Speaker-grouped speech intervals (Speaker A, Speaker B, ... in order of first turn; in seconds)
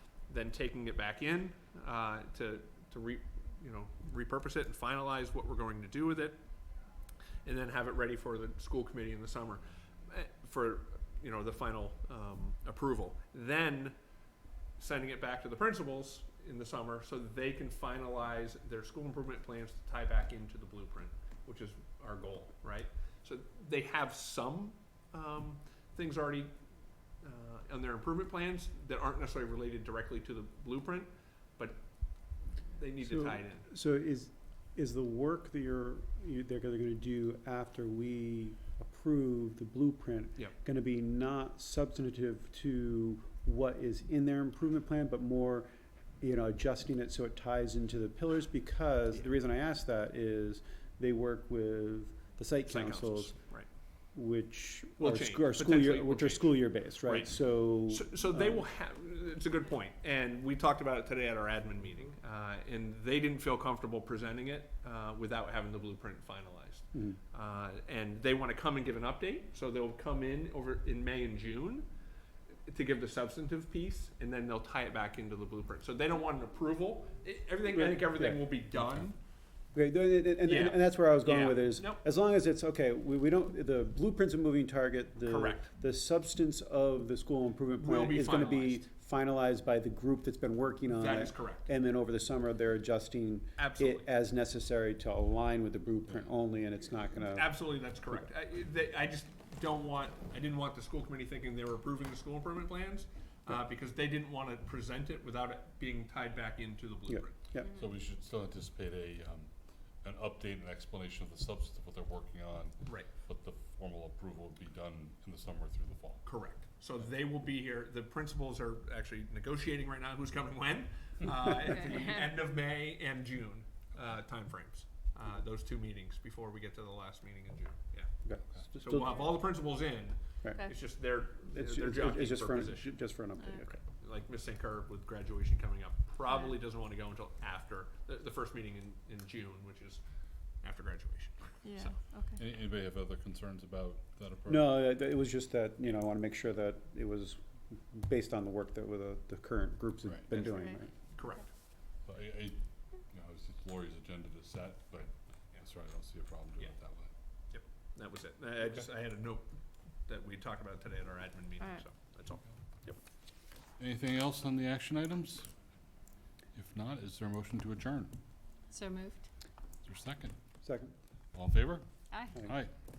Speaker A: 0.3-6.4, 7.4-13.9, 14.8-26.5, 27.2-31.8, 32.7-33.7, 52.6-53.7, 55.0-71.8, 72.7-79.2, 80.4-82.0, 85.2-85.7, 87.8-88.8, 90.9-91.7, 93.6-94.0, 97.2-107.3, 116.2-128.1, 128.7-133.0, 133.6-140.0, 140.6-142.0, 151.1-151.5, 157.5-159.5, 160.1-163.0
Speaker B: 33.0-45.7, 46.2-53.4, 54.1-58.6, 66.9-67.2, 77.7-78.4, 79.7-98.2, 107.1-107.7, 128.2-129.4, 131.5-133.8, 144.5-150.9, 170.6-170.9
Speaker C: 107.7-109.5, 110.0-116.2, 142.3-144.7, 152.1-157.1, 163.8-165.5, 166.5-168.1, 169.8-170.3, 171.3-172.7
Speaker D: 141.6-142.4, 150.4-150.7, 168.7-169.2, 172.1-172.3